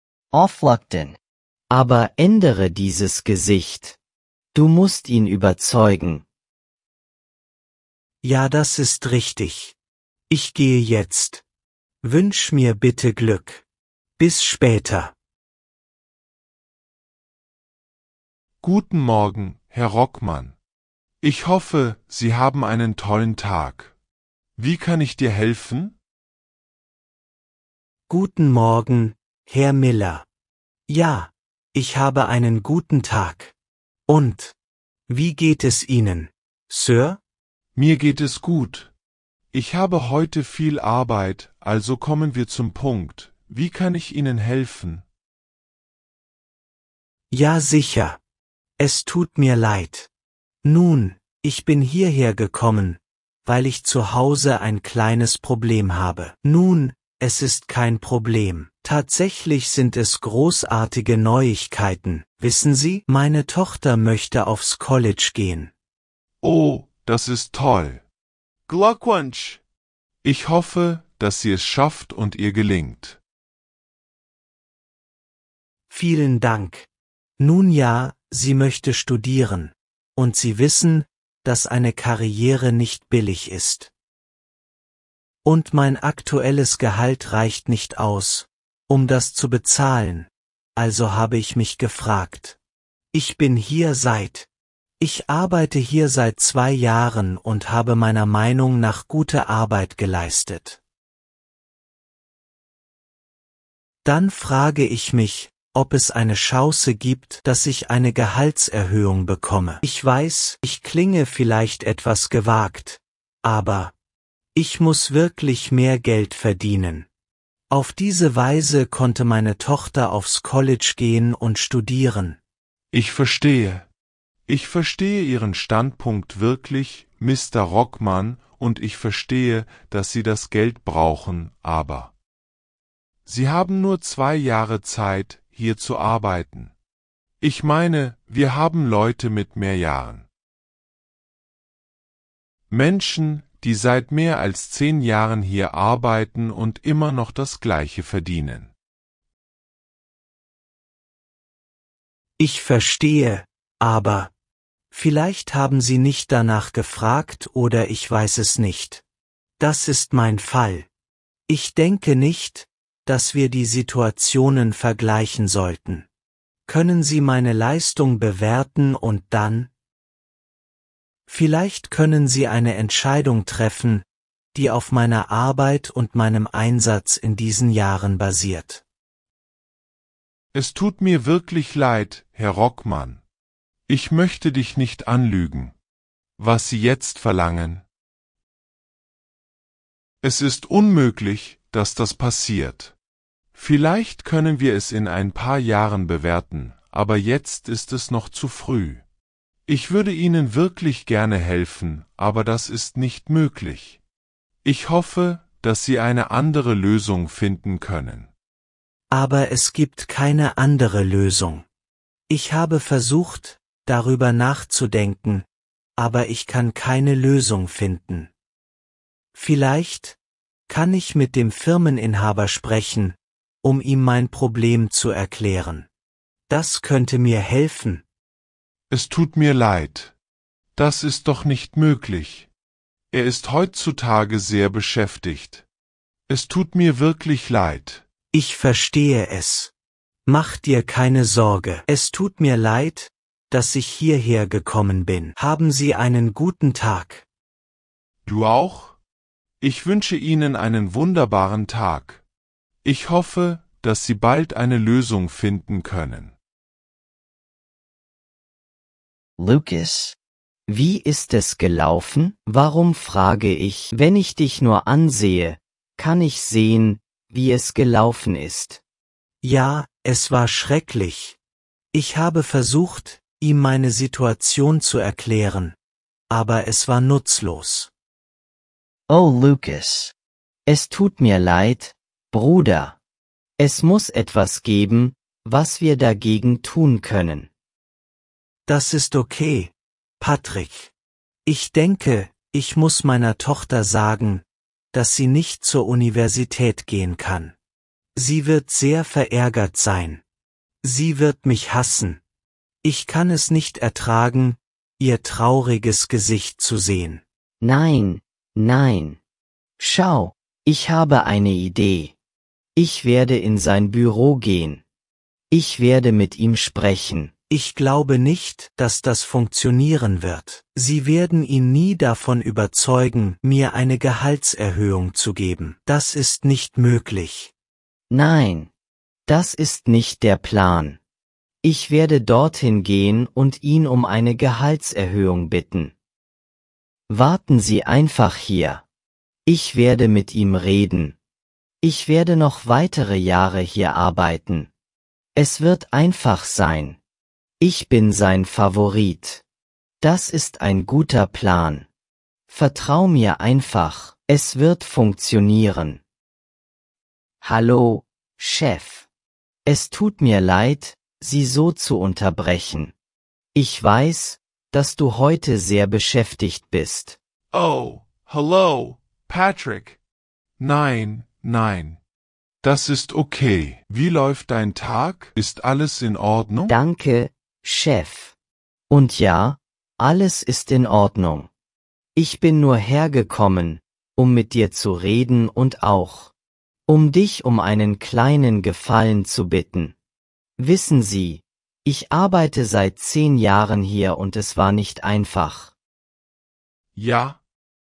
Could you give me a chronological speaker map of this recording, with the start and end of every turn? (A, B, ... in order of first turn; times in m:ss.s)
0:00.3-0:01.2 A
0:01.7-0:04.0 A
0:04.5-0:06.3 A
0:08.2-0:09.8 B
0:10.3-0:11.4 B
0:12.0-0:13.6 B
0:14.2-0:15.1 B
0:18.6-0:20.6 C
0:21.2-0:24.0 C
0:24.6-0:26.0 C
0:28.1-0:30.3 B
0:30.9-0:33.5 B
0:34.1-0:34.6 B
0:35.1-0:37.2 B
0:37.7-0:38.9 C
0:39.5-0:45.0 C
0:47.3-0:48.2 B
0:48.8-0:50.1 B
0:50.6-1:05.7 B
1:06.4-1:08.0 C
1:08.7-1:09.6 C
1:10.2-1:13.2 C
1:15.9-1:16.9 B
1:17.4-1:23.9 B
1:25.4-1:32.6 B
1:33.1-1:34.5 B
1:35.0-1:40.8 B
1:44.0-1:53.9 B
1:54.6-1:57.1 B
1:57.7-2:02.4 B
2:02.9-2:03.9 C
2:04.5-2:12.1 C
2:13.2-2:16.8 C
2:17.4-2:20.3 C
2:22.7-2:28.7 C
2:32.4-2:34.3 B
2:34.9-2:39.0 B
2:39.6-2:40.9 B
2:41.5-2:46.1 B
2:46.7-2:49.7 B
2:51.3-2:58.8 B
3:00.5-3:03.2 C
3:03.9-3:05.8 C
3:06.4-3:07.8 C
3:10.2-3:12.9 C
3:13.5-3:19.0 C
3:19.7-3:24.0 C
3:24.6-3:28.3 C
3:29.1-3:31.6 B
3:32.3-3:38.3 B
3:39.3-3:45.9 B
3:46.5-3:48.0 B
3:48.9-3:50.2 C
3:50.8-3:52.5 C
3:53.1-3:55.6 C
3:56.3-3:58.0 C
3:58.3-3:59.7 B
4:00.3-4:07.2 B
4:08.2-4:09.0 C
4:09.6-4:12.2 C
4:12.8-4:16.4 C
4:19.4-4:28.8 A
4:29.4-4:31.4 B
4:31.9-4:35.8 B
4:36.3-4:37.9 B
4:39.1-4:40.1 A
4:40.7-4:43.0 A
4:43.6-4:47.5 A
4:48.7-4:50.9 B
4:51.4-4:57.5 B
4:58.2-5:00.2 B
5:00.8-5:02.2 B
5:02.8-5:07.2 B
5:07.6-5:09.2 A
5:09.8-5:12.1 A
5:12.8-5:14.8 A
5:15.5-5:17.3 A
5:17.5-5:27.5 B
5:28.1-5:28.7 A
5:29.3-5:31.0 A
5:31.6-5:35.9 A
5:37.1-5:38.8 A
5:39.4-5:41.2 A
5:41.8-5:44.7 A
5:45.4-5:47.0 A
5:47.6-5:49.4 A
5:50.0-5:51.9 A
5:52.5-5:56.0 A
5:57.4-5:59.1 A
5:59.6-6:02.9 A
6:03.6-6:07.2 A
6:07.5-6:10.0 C
6:10.6-6:12.0 C
6:12.6-6:16.8 C
6:16.7-6:18.3 A
6:18.9-6:21.5 A
6:22.2-6:26.3 A
6:26.9-6:29.9 A
6:30.6-6:35.7 A
6:37.0-6:37.4 C